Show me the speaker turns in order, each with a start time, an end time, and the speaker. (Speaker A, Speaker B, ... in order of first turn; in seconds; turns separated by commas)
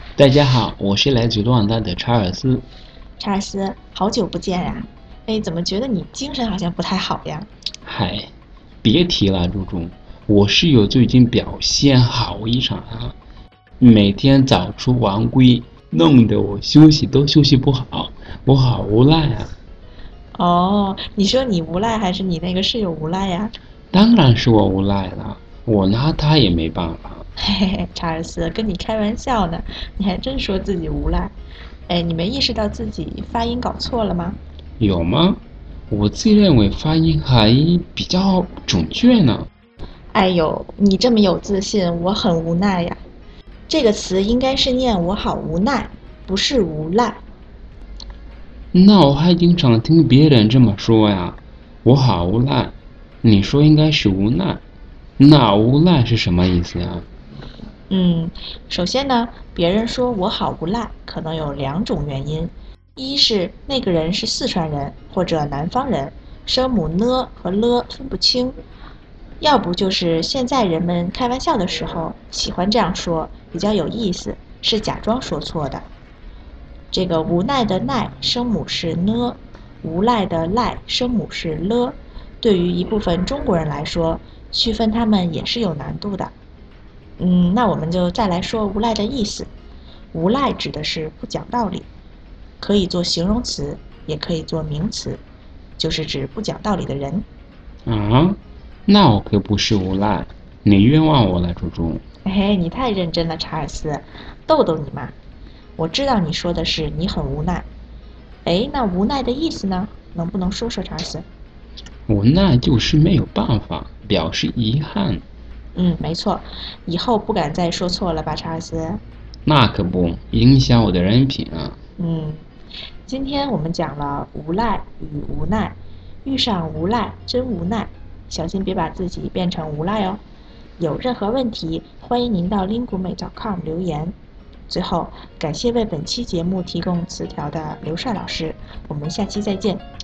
Speaker A: 0.1-2.6, Speaker B: 3.2-7.5, Speaker A: 7.8-8.3, Speaker A: 8.8-13.2, Speaker A: 13.8-19.5, Speaker B: 20.3-23.5, Speaker A: 23.9-27.2, Speaker B: 27.4-31.3, Speaker B: 31.9-34.4, Speaker A: 34.8-39.5, Speaker B: 40.1-43.0, Speaker B: 43.7-47.2, Speaker A: 48.7-54.6, Speaker A: 55.2-57.1, Speaker B: 57.9-68.5, Speaker B: 69.4-75.8, Speaker B: 76.9-86.3, Speaker B: 87.2-89.5, Speaker B: 90.1-91.9, Speaker B: 92.6-95.2, Speaker B: 95.8-97.2, Speaker A: 97.8-102.0, Speaker B: 102.2-105.1, Speaker B: 105.8-107.7, Speaker B: 108.4-111.2, Speaker A: 112.1-115.2, Speaker B: 115.7-119.0, Speaker A: 119.5-121.8, Speaker B: 122.0-122.4, Speaker B: 123.1-130.2, Speaker B: 130.8-134.1, Speaker B: 134.7-139.8